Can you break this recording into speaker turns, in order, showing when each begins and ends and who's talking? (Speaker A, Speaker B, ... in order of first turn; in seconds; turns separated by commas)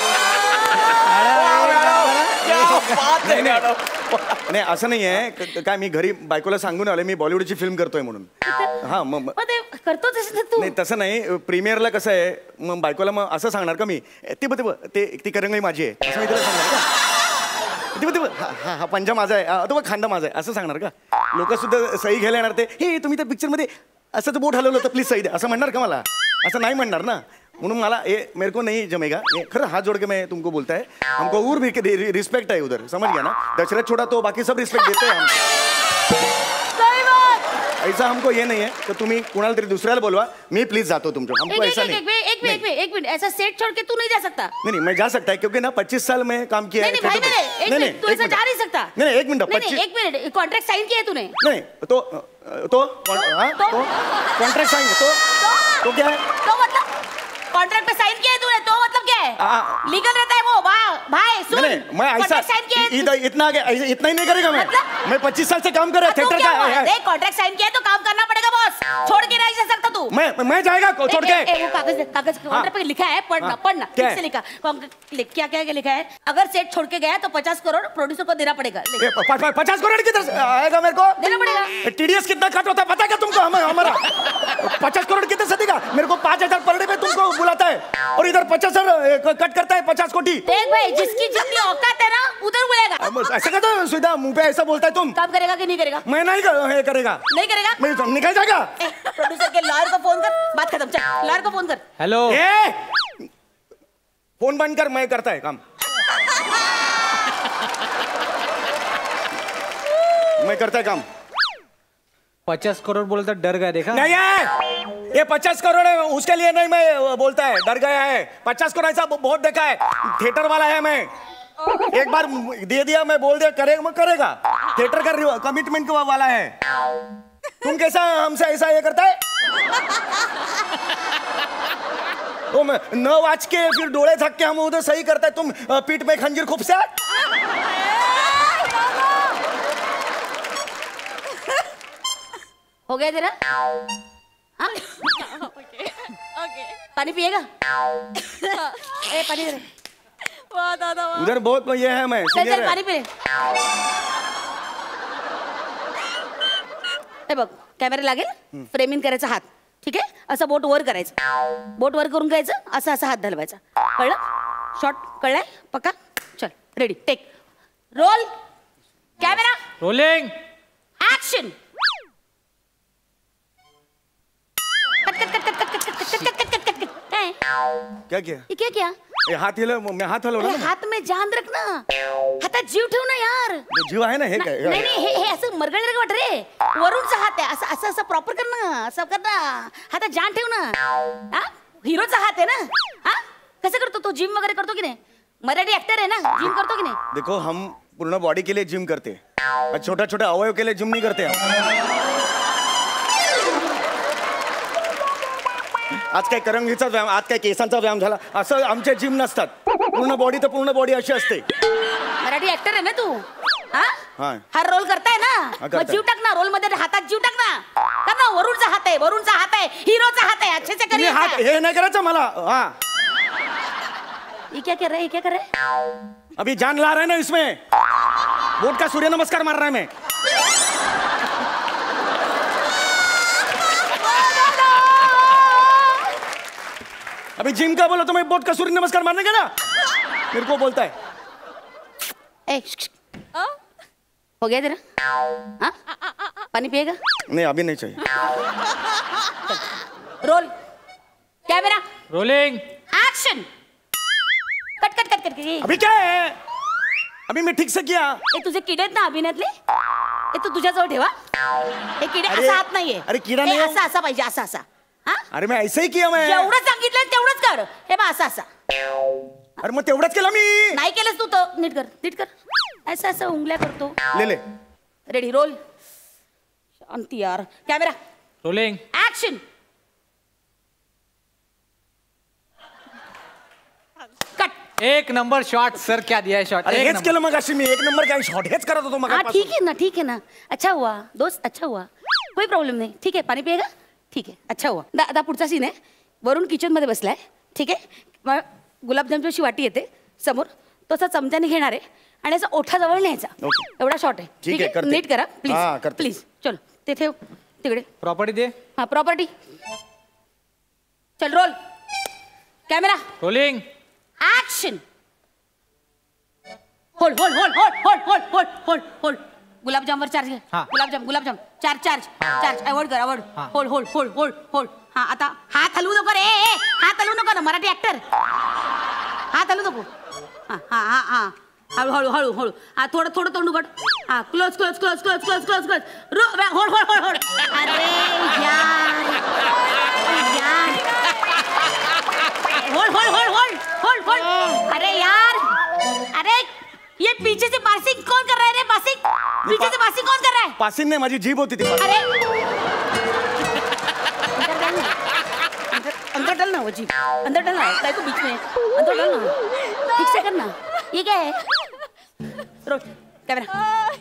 Speaker A: 1.1-3.7, Speaker B: 1.3-8.3, Speaker C: 8.4-8.8, Speaker B: 8.8-9.4, Speaker C: 9.4-10.7, Speaker B: 10.6-16.9, Speaker B: 17.9-35.3, Speaker C: 36.7-37.4, Speaker B: 37.8-42.6, Speaker C: 41.5-44.5, Speaker B: 44.6-48.4, Speaker C: 46.8-48.9, Speaker B: 49.0-49.8, Speaker C: 49.5-51.4, Speaker B: 51.4-55.2, Speaker C: 53.1-53.9, Speaker C: 55.4-55.9, Speaker B: 55.8-56.2, Speaker C: 56.4-56.9, Speaker C: 57.5-63.1, Speaker B: 59.4-59.9, Speaker B: 61.5-66.9, Speaker C: 64.5-65.0, Speaker C: 66.0-70.1, Speaker B: 70.1-71.5, Speaker C: 71.1-79.1, Speaker B: 73.4-74.2, Speaker B: 79.0-81.2, Speaker C: 81.2-81.7, Speaker B: 81.8-90.4, Speaker C: 90.5-93.2, Speaker B: 93.0-95.2, Speaker C: 95.2-96.0, Speaker B: 96.0-97.2, Speaker C: 97.3-97.8, Speaker B: 97.8-98.7, Speaker C: 98.8-101.8, Speaker A: 102.0-102.4, Speaker B: 102.3-102.9, Speaker B: 104.4-105.6, Speaker B: 110.4-111.0, Speaker A: 112.5-114.1, Speaker B: 113.9-114.5, Speaker B: 115.1-121.1, Speaker B: 121.9-126.5, Speaker B: 127.6-129.2, Speaker B: 132.5-136.9, Speaker D: 138.6-139.0, Speaker C: 142.9-143.4, Speaker C: 144.6-145.0, Speaker D: 145.4-145.8, Speaker D: 146.4-146.7, Speaker C: 146.9-147.5, Speaker C: 148.2-149.6, Speaker D: 148.6-148.8, Speaker D: 150.5-151.3, Speaker B: 151.2-152.8, Speaker C: 152.3-153.1, Speaker C: 157.3-161.2, Speaker C: 161.8-164.2, Speaker C: 164.8-167.2, Speaker C: 167.9-168.3, Speaker C: 169.2-169.6, Speaker A: 169.8-170.3, Speaker C: 171.0-171.5, Speaker C: 175.0-177.4, Speaker B: 178.1-178.4, Speaker C: 178.5-178.9, Speaker B: 179.2-180.7, Speaker C: 180.4-181.8, Speaker C: 182.4-183.7, Speaker B: 183.7-184.9, Speaker C: 184.4-190.8, Speaker C: 191.3-197.0, Speaker B: 197.1-199.2, Speaker B: 199.7-201.4, Speaker B: 206.1-211.4, Speaker C: 212.2-214.0, Speaker B: 214.2-214.4, Speaker C: 214.5-221.4, Speaker B: 215.6-216.0, Speaker B: 220.9-222.7, Speaker C: 224.5-225.5, Speaker B: 226.4-227.6, Speaker B: 228.6-229.9, Speaker B: 237.4-239.5, Speaker B: 240.3-240.9, Speaker C: 242.5-242.9, Speaker C: 244.4-244.8, Speaker C: 246.5-247.0, Speaker B: 247.3-248.0, Speaker C: 249.5-250.5, Speaker C: 251.5-251.8, Speaker A: 252.1-252.6, Speaker C: 252.9-253.4, Speaker C: 254.8-255.7, Speaker B: 255.6-256.4, Speaker B: 257.3-258.2, Speaker C: 258.3-259.5, Speaker C: 260.3-261.1, Speaker C: 262.0-265.2, Speaker B: 262.3-263.8, Speaker B: 265.3-266.5, Speaker C: 266.2-268.5, Speaker B: 269.6-270.8, Speaker C: 270.7-272.3, Speaker C: 272.9-273.9, Speaker B: 274.1-274.4, Speaker C: 275.1-275.6, Speaker C: 276.9-278.0, Speaker A: 278.4-278.8, Speaker C: 278.9-279.4, Speaker A: 284.8-287.1, Speaker B: 286.6-289.5, Speaker C: 289.1-307.9, Speaker B: 304.4-306.1, Speaker A: 308.0-308.5, Speaker C: 308.8-309.3, Speaker C: 311.2-311.6, Speaker C: 312.7-313.1, Speaker A: 313.2-313.6, Speaker C: 314.2-314.8, Speaker C: 317.0-328.0, Speaker C: 329.3-329.9, Speaker C: 330.5-339.4, Speaker C: 340.0-340.9, Speaker C: 342.5-345.6, Speaker C: 346.1-350.6, Speaker B: 349.4-349.8, Speaker B: 350.6-351.9, Speaker C: 351.8-352.1, Speaker C: 354.4-354.9, Speaker C: 355.7-359.3, Speaker C: 359.9-361.4, Speaker C: 362.6-363.5